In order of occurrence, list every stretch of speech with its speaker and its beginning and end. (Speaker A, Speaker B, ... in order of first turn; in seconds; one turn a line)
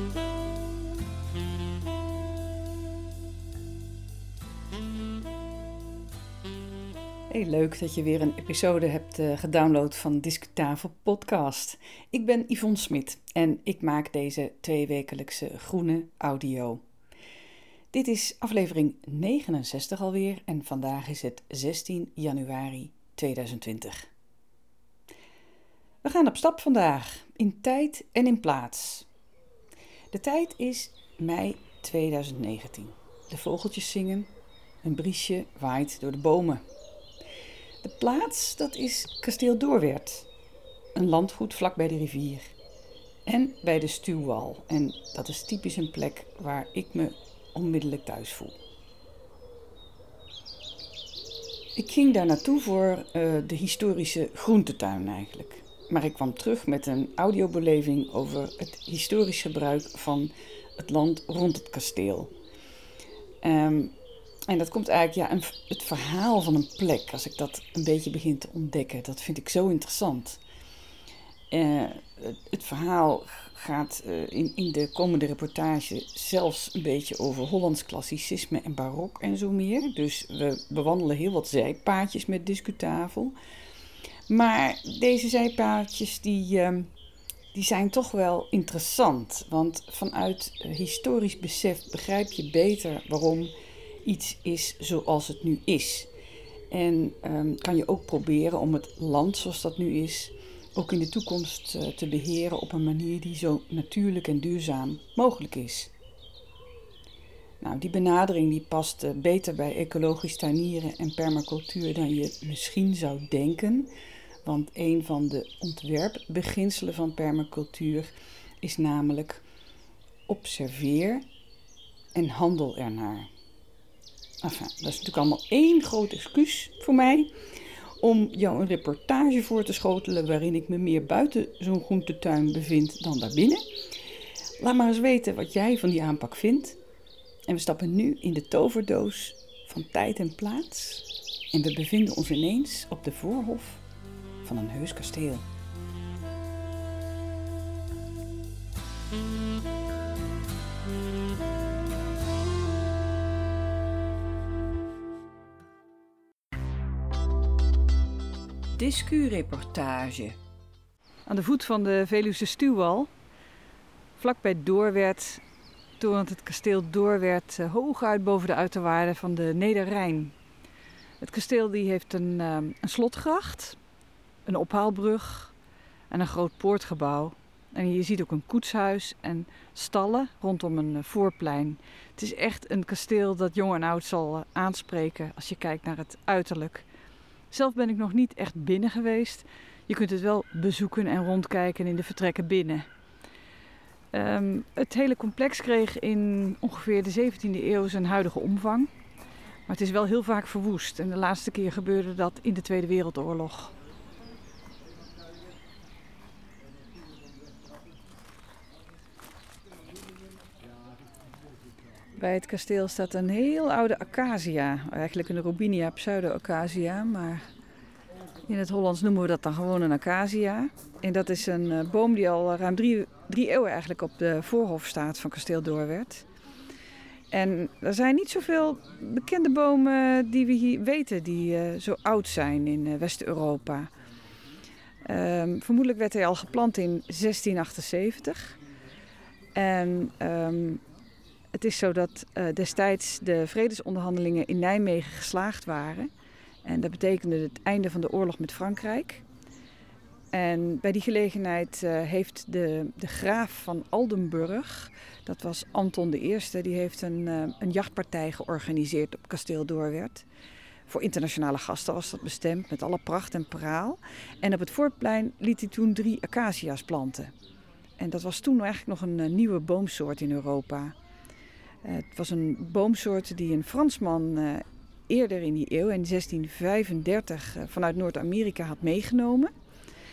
Speaker A: 7.3-16.8
Speaker A: 17.9-24.1
Speaker A: 26.0-29.1
Speaker A: 30.1-34.3
Speaker A: 34.8-36.6
Speaker A: 37.8-40.3
Speaker A: 40.9-42.5
Speaker A: 43.2-48.6
Speaker A: 51.8-62.3
Speaker A: 63.4-63.9
Speaker A: 64.5-70.4
Speaker A: 71.5-83.3
Speaker A: 84.3-86.9
Speaker A: 87.5-96.1
Speaker A: 96.7-105.9
Speaker A: 107.6-113.9
Speaker A: 114.4-118.1
Speaker A: 118.6-119.4
Speaker A: 120.3-121.2
Speaker A: 122.1-123.3
Speaker A: 124.4-133.6
Speaker A: 134.6-136.8
Speaker A: 137.5-143.8
Speaker A: 144.4-145.4
Speaker A: 158.7-160.4
Speaker A: 161.3-163.1
Speaker A: 164.2-165.4
Speaker A: 166.0-170.3
Speaker A: 171.2-173.8
Speaker A: 174.4-175.5
Speaker A: 176.1-186.8
Speaker A: 187.5-192.9
Speaker A: 194.1-198.9
Speaker A: 199.7-203.7
Speaker A: 212.2-217.4
Speaker A: 218.4-226.2
Speaker A: 227.3-233.9
Speaker A: 235.0-238.6
Speaker A: 239.5-240.8
Speaker A: 241.5-246.1
Speaker A: 246.6-249.2
Speaker A: 250.3-260.2
Speaker A: 260.9-267.3
Speaker A: 268.0-270.9
Speaker A: 271.8-279.5